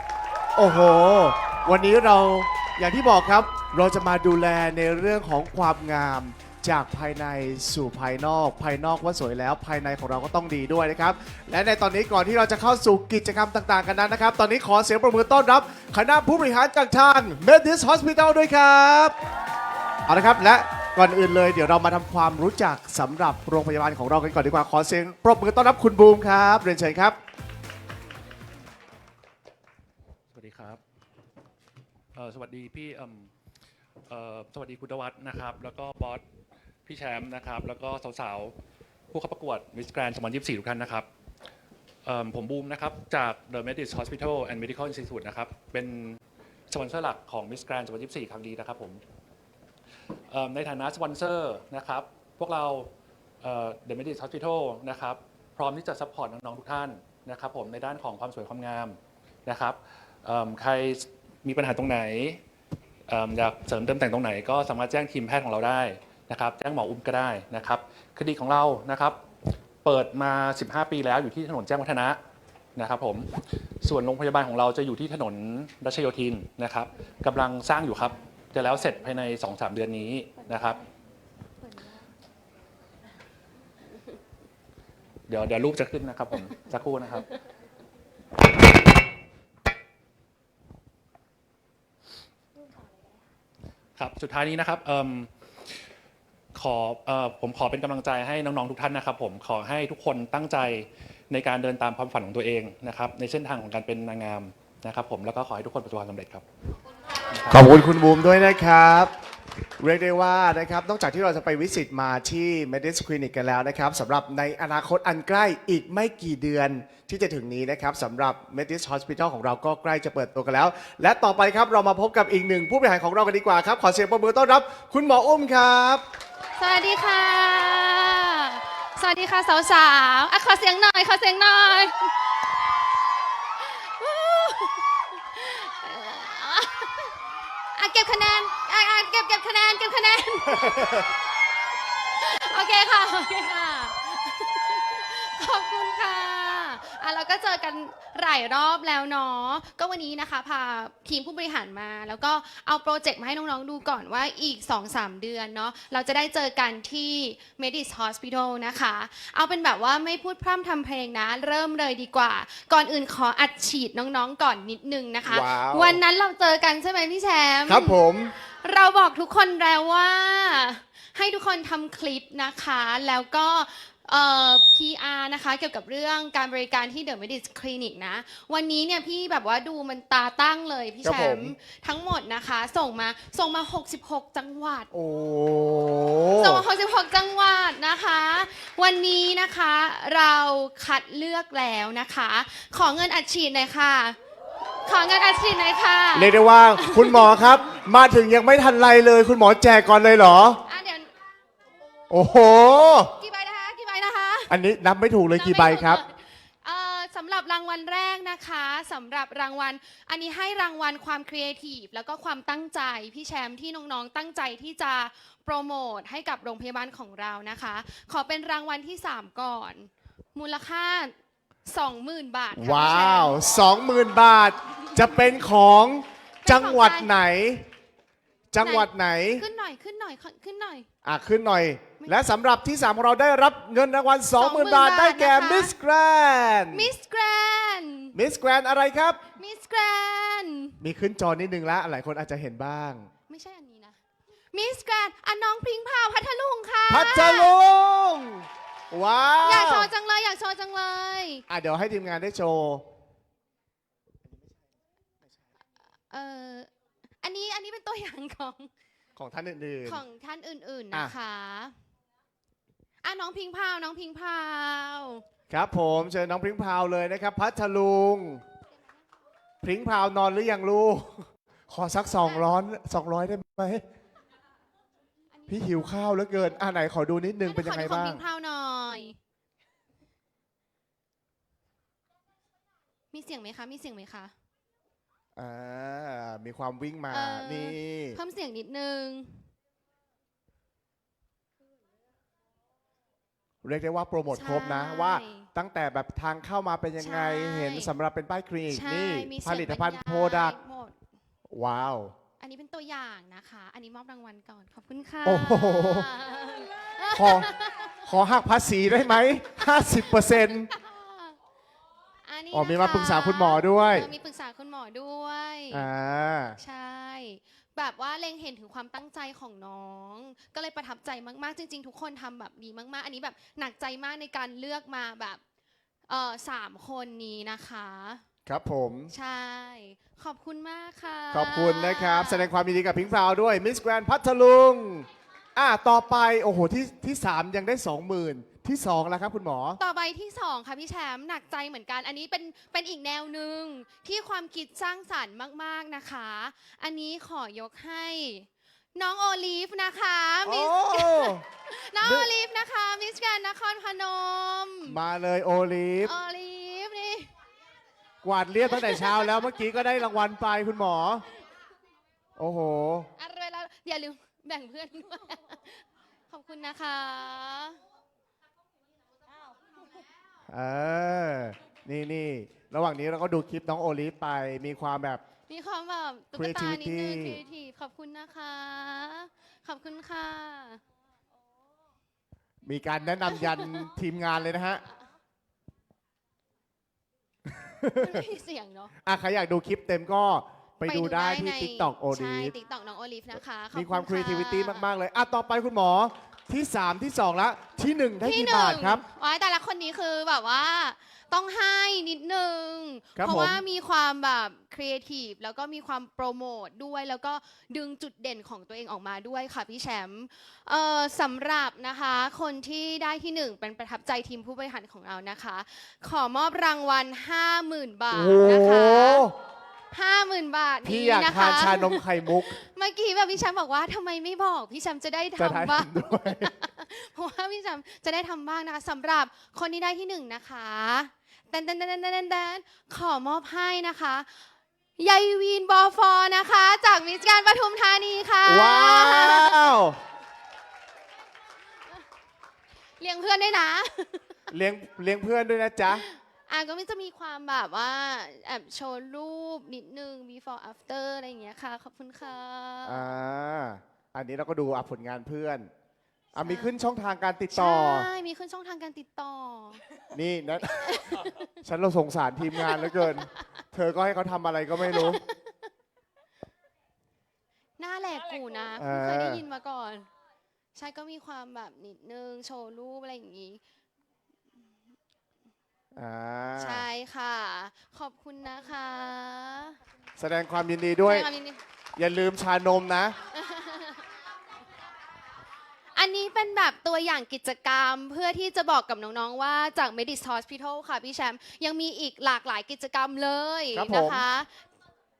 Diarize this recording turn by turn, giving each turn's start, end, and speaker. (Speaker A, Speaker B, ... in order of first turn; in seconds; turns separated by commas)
Speaker A: 0.6-19.1, Speaker A: 20.1-27.2, Speaker B: 30.3-30.8, Speaker B: 32.1-33.3, Speaker B: 34.1-36.2, Speaker B: 36.9-38.5, Speaker B: 39.1-41.1, Speaker B: 42.0-49.0, Speaker B: 50.3-52.9, Speaker B: 53.4-62.4, Speaker B: 63.1-69.2, Speaker B: 69.8-72.2, Speaker B: 72.8-80.8, Speaker B: 85.3-87.3, Speaker B: 94.0-95.3, Speaker B: 96.5-106.4, Speaker B: 107.2-107.6, Speaker A: 107.5-109.1, Speaker A: 109.8-126.0, Speaker C: 126.6-132.1, Speaker C: 133.6-137.2, Speaker C: 137.7-141.1, Speaker A: 140.5-141.1, Speaker C: 142.0-184.9, Speaker A: 165.2-166.0, Speaker A: 167.7-168.3, Speaker A: 181.0-181.5, Speaker A: 184.9-186.6, Speaker C: 186.4-194.2, Speaker C: 194.8-197.3, Speaker A: 196.1-200.6, Speaker C: 200.7-201.1, Speaker A: 202.1-203.1, Speaker C: 203.2-204.5, Speaker A: 204.5-206.0, Speaker C: 205.3-221.1, Speaker C: 221.7-223.4, Speaker A: 222.5-227.7, Speaker C: 226.4-227.1, Speaker A: 228.5-229.4, Speaker C: 228.6-230.9, Speaker A: 231.0-236.9, Speaker C: 234.4-235.7, Speaker C: 236.7-238.1, Speaker A: 238.1-239.2, Speaker C: 239.3-240.8, Speaker A: 240.8-243.1, Speaker C: 243.3-244.0, Speaker C: 244.5-247.5, Speaker A: 246.9-249.9, Speaker C: 249.4-251.4, Speaker A: 251.5-252.9, Speaker C: 256.1-256.7, Speaker C: 257.2-258.7, Speaker A: 259.1-260.0, Speaker C: 259.8-261.8, Speaker C: 263.0-265.2, Speaker A: 265.5-268.4, Speaker A: 269.6-273.8, Speaker C: 275.3-275.6, Speaker A: 275.5-278.2, Speaker C: 277.4-279.2, Speaker C: 283.1-284.3, Speaker A: 285.4-288.2, Speaker C: 287.1-289.5, Speaker A: 293.6-300.6, Speaker C: 294.3-295.5, Speaker C: 297.0-297.9, Speaker C: 298.7-301.0, Speaker A: 301.5-302.1, Speaker C: 302.4-307.9, Speaker A: 305.2-306.1, Speaker A: 307.1-307.5, Speaker A: 308.0-310.7, Speaker C: 310.7-311.4, Speaker C: 312.2-315.9, Speaker A: 312.5-314.1, Speaker A: 315.7-316.6, Speaker C: 316.6-325.4, Speaker C: 326.1-328.2, Speaker A: 328.4-329.1, Speaker C: 329.1-332.5, Speaker A: 331.3-339.8, Speaker C: 339.8-355.0, Speaker A: 350.4-351.4, Speaker A: 352.0-352.3, Speaker A: 354.8-356.1, Speaker C: 356.0-357.3, Speaker A: 358.2-361.2, Speaker C: 358.7-359.2, Speaker A: 362.4-363.1, Speaker C: 363.2-367.8, Speaker A: 370.5-375.2, Speaker C: 375.5-380.8, Speaker A: 376.3-377.4, Speaker A: 382.6-384.8, Speaker A: 387.5-388.2, Speaker C: 388.0-388.9, Speaker A: 389.0-392.5, Speaker C: 390.8-394.9, Speaker A: 393.7-399.0, Speaker C: 398.2-419.3, Speaker A: 403.1-403.6, Speaker A: 418.1-419.3, Speaker C: 419.9-439.7, Speaker A: 420.8-422.6, Speaker A: 425.4-426.5, Speaker A: 438.4-440.0, Speaker C: 443.0-444.4, Speaker A: 444.5-446.0, Speaker C: 445.9-453.1, Speaker A: 452.8-455.7, Speaker A: 456.3-458.1, Speaker C: 456.4-456.7, Speaker C: 457.5-459.8, Speaker A: 460.1-465.2, Speaker C: 460.9-461.5, Speaker C: 462.6-463.1, Speaker C: 464.8-465.4, Speaker C: 467.8-470.1, Speaker A: 468.8-469.4, Speaker C: 470.7-473.6, Speaker A: 475.9-476.9, Speaker C: 476.6-479.8, Speaker A: 480.2-481.3, Speaker C: 481.0-481.6, Speaker A: 481.9-483.2, Speaker C: 483.3-484.1, Speaker C: 485.9-494.6, Speaker A: 493.7-494.2